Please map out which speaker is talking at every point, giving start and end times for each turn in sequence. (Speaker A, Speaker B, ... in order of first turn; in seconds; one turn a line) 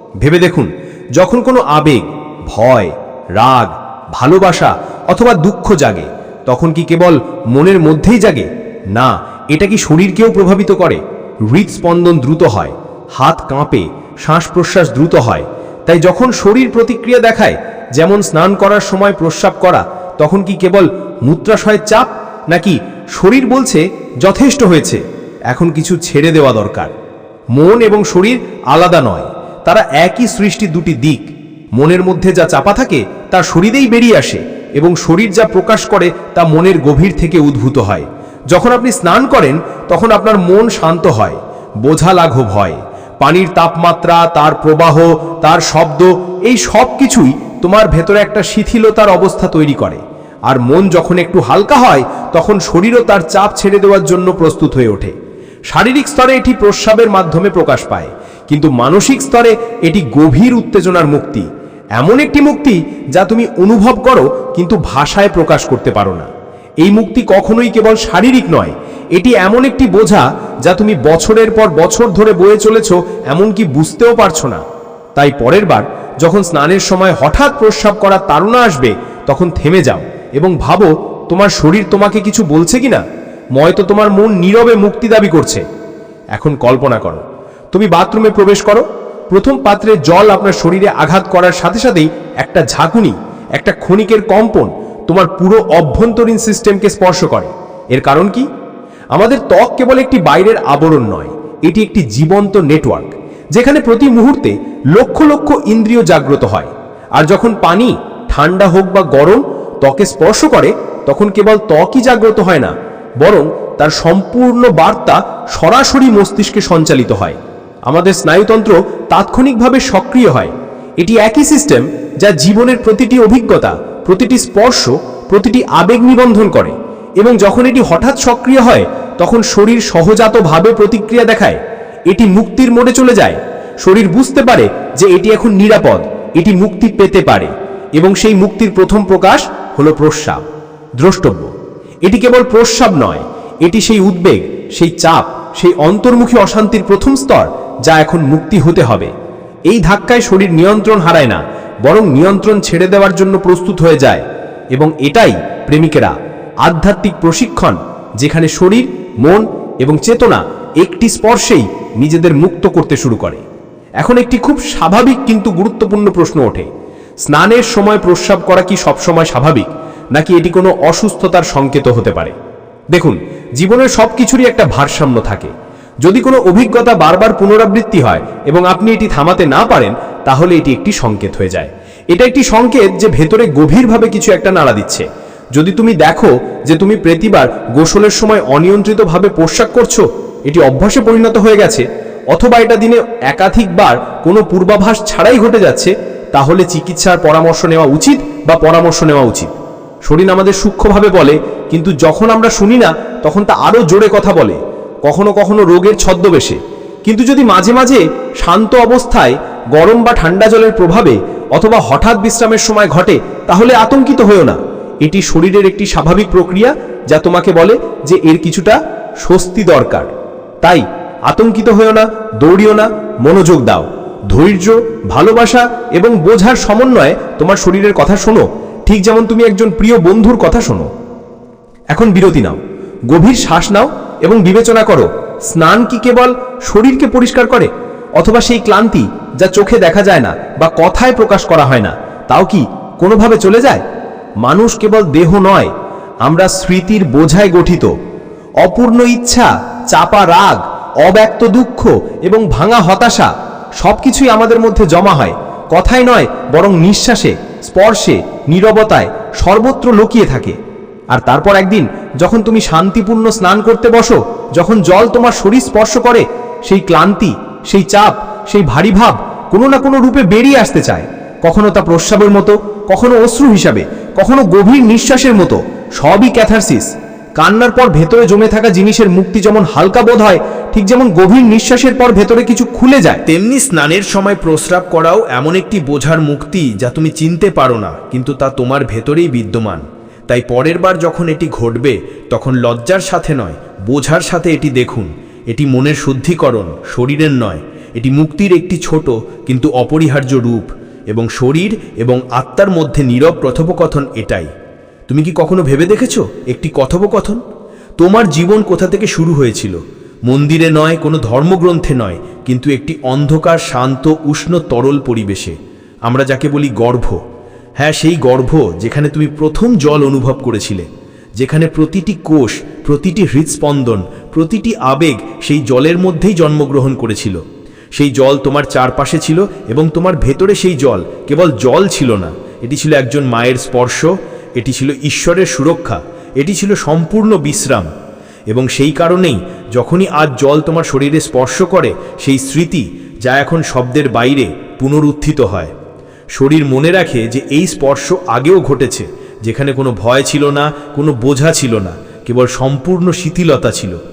Speaker A: 0.2-26.9
Speaker A: 27.6-55.1
Speaker A: 55.7-61.5
Speaker A: 62.0-66.3
Speaker A: 66.8-74.6
Speaker A: 75.2-83.0
Speaker A: 83.6-85.6
Speaker A: 86.3-98.5
Speaker A: 99.1-140.4
Speaker A: 141.0-141.5
Speaker A: 142.0-149.1
Speaker A: 149.7-154.2
Speaker A: 154.7-163.4
Speaker A: 164.0-166.7
Speaker A: 167.3-172.3
Speaker A: 172.9-175.5
Speaker A: 176.0-199.5
Speaker A: 200.1-220.1
Speaker A: 220.6-230.9
Speaker A: 231.9-232.6
Speaker A: 233.1-243.8
Speaker A: 244.4-245.7
Speaker A: 246.2-247.9
Speaker A: 248.6-260.6
Speaker A: 261.1-283.3
Speaker B: 283.3-304.4
Speaker A: 298.1-299.0
Speaker A: 300.1-300.6
Speaker A: 301.1-304.4
Speaker B: 305.1-307.4
Speaker A: 305.3-307.4
Speaker B: 308.0-309.8
Speaker A: 308.3-308.9
Speaker B: 310.3-315.5
Speaker B: 316.1-317.2
Speaker B: 317.8-320.9
Speaker B: 321.4-327.4
Speaker A: 326.3-326.6
Speaker B: 328.0-334.1
Speaker A: 328.0-328.7
Speaker A: 329.6-330.2
Speaker B: 334.6-337.9
Speaker A: 337.0-337.4
Speaker B: 338.5-345.7
Speaker B: 346.4-353.9